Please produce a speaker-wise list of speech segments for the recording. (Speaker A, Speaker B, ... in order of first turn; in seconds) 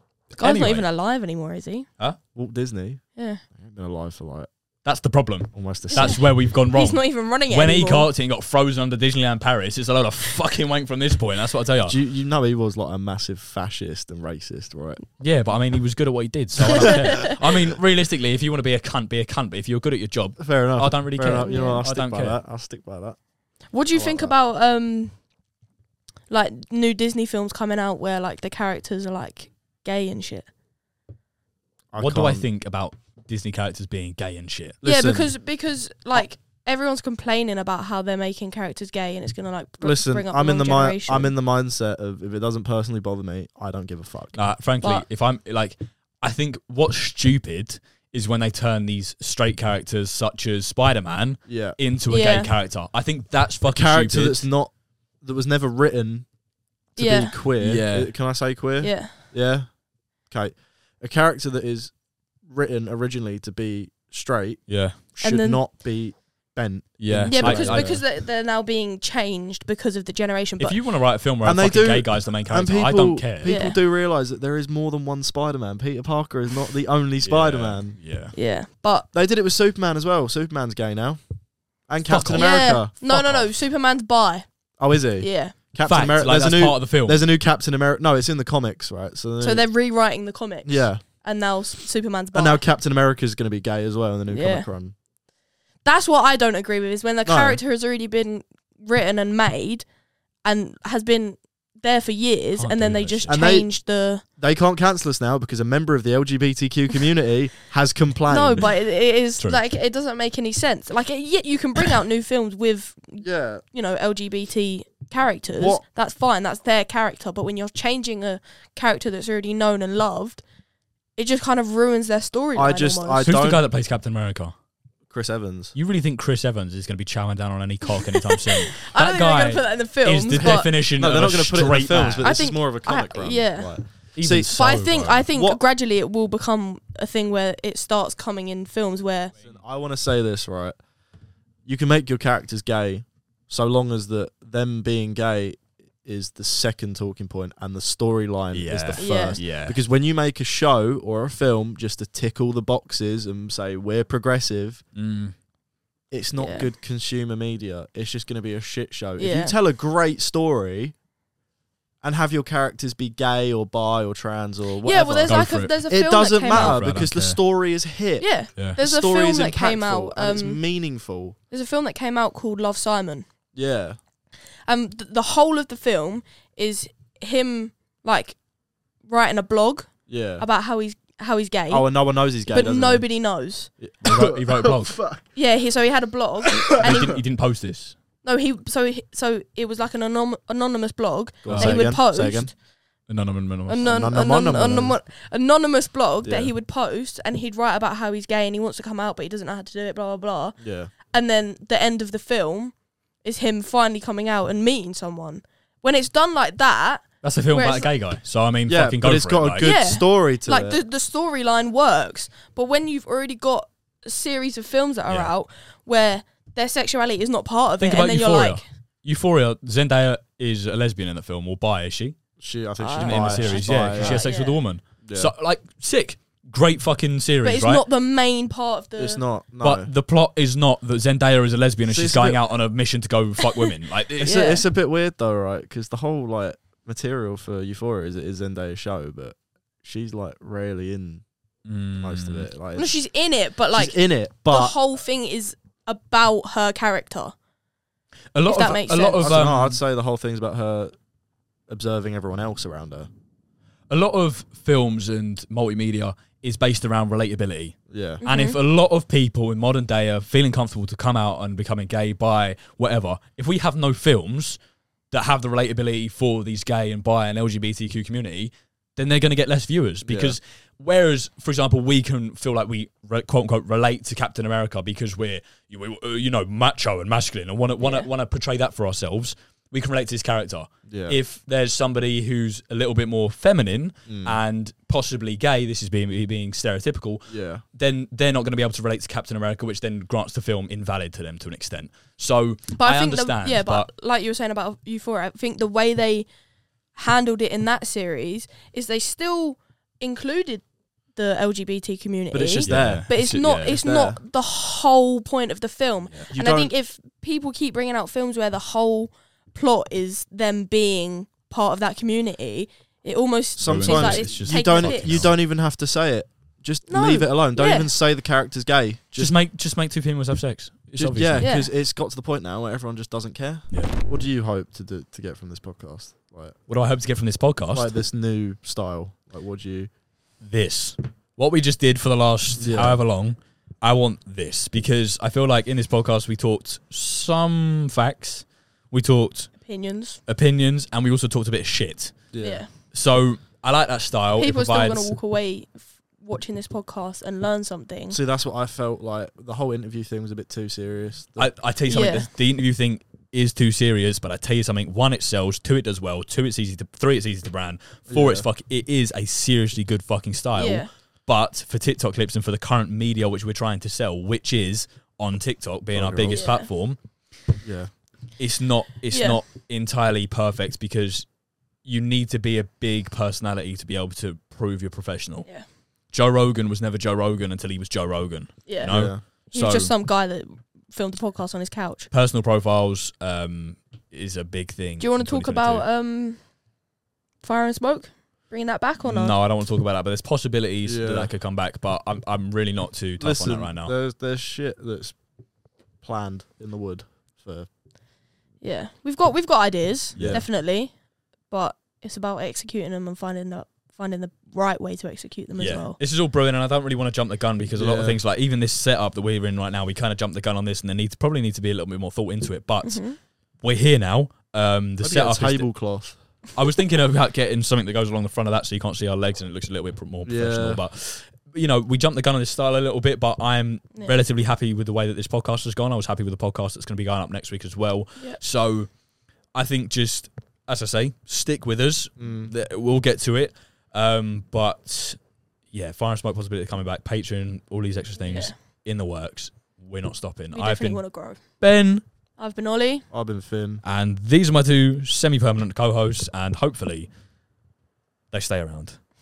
Speaker A: 0.3-0.9, 4.8-12.0, 15.2-22.4, 32.0-34.8, 44.4-54.5, 57.6-58.1, 64.7-65.0, 67.0-68.0, 70.6-73.6, 77.2-78.3, 82.0-82.5, 85.8-87.2, 102.6-103.4, 123.2-124.5, 125.8-132.4, 134.2-135.3, 148.5-149.8, 154.9-155.4, 165.3-165.8, 166.5-167.4, 184.0-185.0, 186.8-188.0, 191.5-191.9, 193.1-193.9, 207.2-209.7, 215.1-215.3, 217.8-222.2, 222.9-227.8, 229.6-234.4, 241.7-242.5, 248.3-249.8, 253.9-264.6, 265.1-293.9, 302.7-303.8, 313.6-315.4, 319.2-321.5, 326.7-327.9, 330.4-339.5, 340.3-342.3, 342.9-345.2, 351.4-367.0, 368.4-371.3, 371.8-375.5, 376.1-379.9, 382.1-385.9, 389.0-393.9, 400.1-400.4, 405.6-413.1, 413.6-415.7, 416.5-428.9, 429.5-435.2, 435.7-442.0, 443.8-447.1, 448.3-449.0
Speaker B: 0.4-1.9, 3.2-3.4, 5.9-8.1, 21.4-21.8, 23.7-25.1, 26.3-30.5, 34.8-41.3, 52.1-52.5, 57.0-57.4, 58.8-59.1, 65.2-65.7, 67.3-70.8, 73.5-73.8, 78.3-79.1, 82.4-84.5, 85.2-85.5, 89.4-92.6, 94.3-94.7, 95.8-99.9, 100.4-104.2, 108.3-120.4, 121.2-123.3, 128.3-130.7, 132.2-133.8, 134.5-139.3, 149.0-149.4, 156.4-156.7, 159.2-159.6, 164.8-166.8, 168.2-170.6, 171.5-173.3, 174.7-178.4, 179.1-181.9, 182.5-183.7, 185.3-187.2, 188.2-192.6, 193.7-207.9, 209.6-218.6, 222.8-224.6, 227.4-229.2, 233.4-233.7, 234.2-234.6, 242.8-247.3, 248.5-249.4, 258.2-258.6, 277.8-278.1, 292.7-296.3, 296.9-315.3, 316.9-317.9, 321.4-321.7, 339.6-340.2, 342.4-342.7, 344.4-348.2, 351.9-352.3, 360.6-360.9, 366.3-366.7, 369.1-369.4, 378.7-382.1, 385.0-386.4, 387.4-389.4, 398.6-400.9, 401.5-406.0, 412.8-413.2, 438.2-438.5, 440.5-441.4, 442.4-443.1
Speaker C: 2.3-4.5, 5.5-6.2, 11.9-15.0, 16.6-17.0, 20.4-23.2, 23.9-24.4, 31.9-32.5, 34.8-35.3, 39.8-44.4, 51.5-51.8, 53.7-56.3, 57.0-59.7, 60.3-61.9, 62.5-68.1, 71.4-78.0, 79.1-81.2, 81.9-83.5, 84.8-89.7, 90.7-91.0, 92.3-94.9, 97.2-97.6, 103.3-103.7, 104.4-108.8, 113.2-113.6, 115.5-115.8, 122.5-123.6, 125.1-125.8, 130.4-134.6, 135.3-135.6, 139.4-140.8, 141.7-154.8, 156.1-160.9, 162.0-171.4, 173.5-174.0, 180.1-180.4, 181.7-183.1, 183.8-185.3, 186.7-187.2, 191.4-192.5, 193.8-195.0, 196.2-196.5, 200.6-200.9, 208.7-210.8, 222.4-224.3, 225.0-225.3, 229.0-229.9, 231.8-232.4, 234.2-241.2, 242.0-243.0, 243.7-244.8, 248.7-250.9, 251.7-253.1, 257.9-258.2, 270.0-270.4, 280.9-281.2, 284.1-284.4, 287.3-287.6, 302.3-304.2, 306.3-306.7, 313.6-319.4, 321.0-326.6, 327.7-329.9, 332.6-333.0, 342.3-342.7, 348.1-351.6, 358.1-358.5, 365.9-366.5, 367.6-367.9, 378.8-379.2, 390.9-391.3, 393.2-395.2, 396.0-397.7, 400.1-400.5, 407.8-408.2, 415.0-416.2, 420.3-420.8, 432.2-432.5, 443.1-443.8